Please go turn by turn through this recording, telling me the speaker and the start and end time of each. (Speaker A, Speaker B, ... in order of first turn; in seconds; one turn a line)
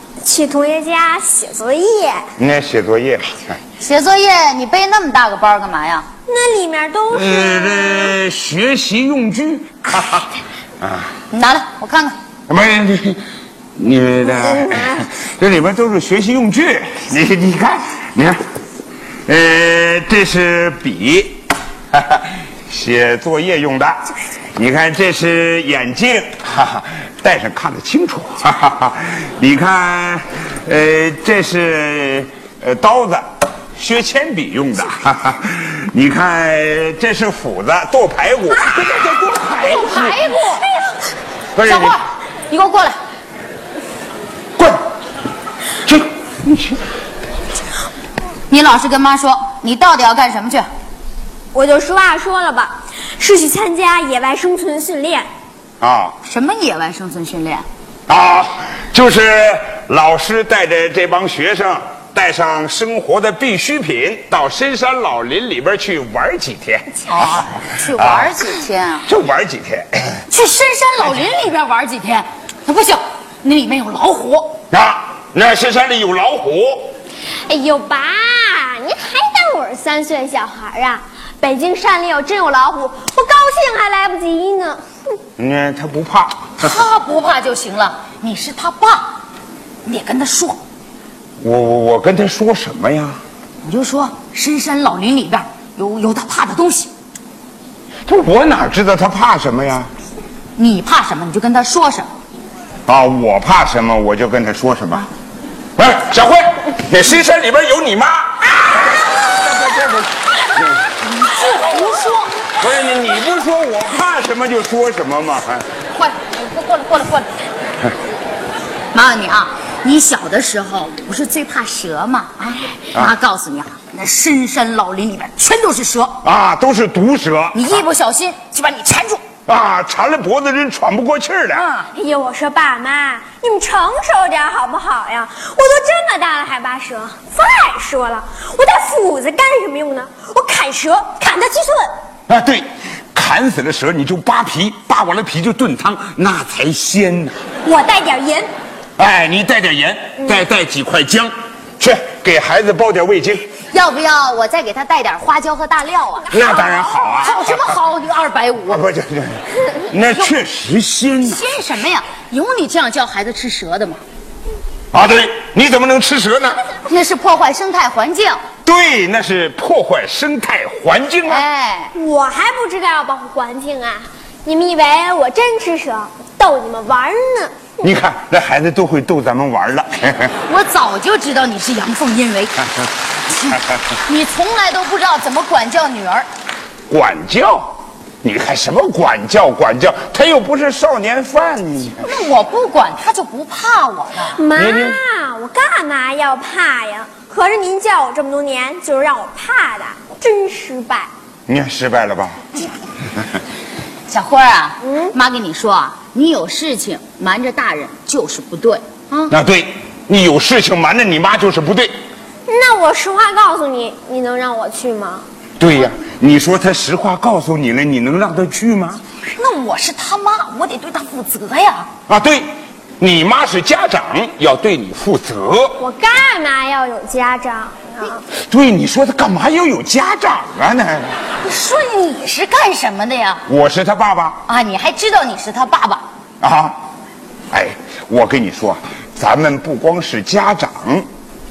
Speaker A: 0.2-2.3
Speaker B: 2.4-3.5
Speaker C: 3.8-6.0
Speaker A: 6.3-8.2
Speaker B: 7.1-10.3
Speaker B: 10.8-11.1
Speaker C: 11.3-12.2
Speaker B: 12.5-13.2
Speaker B: 13.8-18.4
Speaker A: 14.3-15.1
Speaker B: 19.3-21.4
Speaker B: 21.9-40.3
Speaker C: 39.4-40.7
Speaker B: 41.5-42.0
Speaker C: 41.6-43.0
Speaker B: 45.9-46.6
Speaker C: 48.5-50.6
Speaker A: 51.5-55.2
Speaker B: 55.8-56.2
Speaker C: 56.2-57.6
Speaker B: 58.1-67.0
Speaker C: 67.0-69.1
Speaker B: 67.9-68.5
Speaker B: 69.0-70.2
Speaker C: 70.3-74.6
Speaker B: 74.7-76.9
Speaker A: 77.5-84.8
Speaker B: 85.4-86.7
Speaker C: 86.6-89.1
Speaker C: 89.8-90.6
Speaker B: 91.4-93.2
Speaker C: 93.6-96.9
Speaker B: 98.0-99.9
Speaker C: 100.5-102.1
Speaker B: 102.9-105.1
Speaker B: 105.8-110.8
Speaker C: 111.0-112.3
Speaker B: 112.6-115.7
Speaker C: 115.9-117.3
Speaker C: 118.9-126.2
Speaker B: 126.2-127.8
Speaker C: 127.5-129.2
Speaker B: 129.5-131.7
Speaker C: 131.5-131.9
Speaker A: 131.9-141.9
Speaker B: 142.3-147.4
Speaker A: 147.6-148.5
Speaker B: 149.0-153.5
Speaker C: 153.7-156.4
Speaker B: 156.3-157.6
Speaker A: 156.4-157.1
Speaker C: 157.2-158.8
Speaker B: 158.7-161.5
Speaker C: 161.2-164.0
Speaker B: 164.9-166.6
Speaker C: 166.8-168.4
Speaker B: 168.6-171.4
Speaker C: 171.3-171.9
Speaker A: 171.9-177.8
Speaker B: 177.8-180.3
Speaker C: 180.4-182.7
Speaker C: 183.2-186.3
Speaker B: 186.9-192.1
Speaker C: 192.0-194.4
Speaker A: 194.3-201.1
Speaker B: 194.6-195.0
Speaker B: 201.5-202.5
Speaker C: 204.1-209.3
Speaker A: 204.8-205.1
Speaker B: 209.3-211.9
Speaker A: 212.5-215.2
Speaker B: 215.6-219.0
Speaker C: 219.3-221.9
Speaker B: 222.1-222.5
Speaker B: 223.0-225.8
Speaker A: 225.8-228.2
Speaker B: 228.3-231.1
Speaker C: 231.4-233.4
Speaker B: 233.4-234.4
Speaker C: 234.5-236.1
Speaker B: 236.4-236.8
Speaker B: 237.5-241.1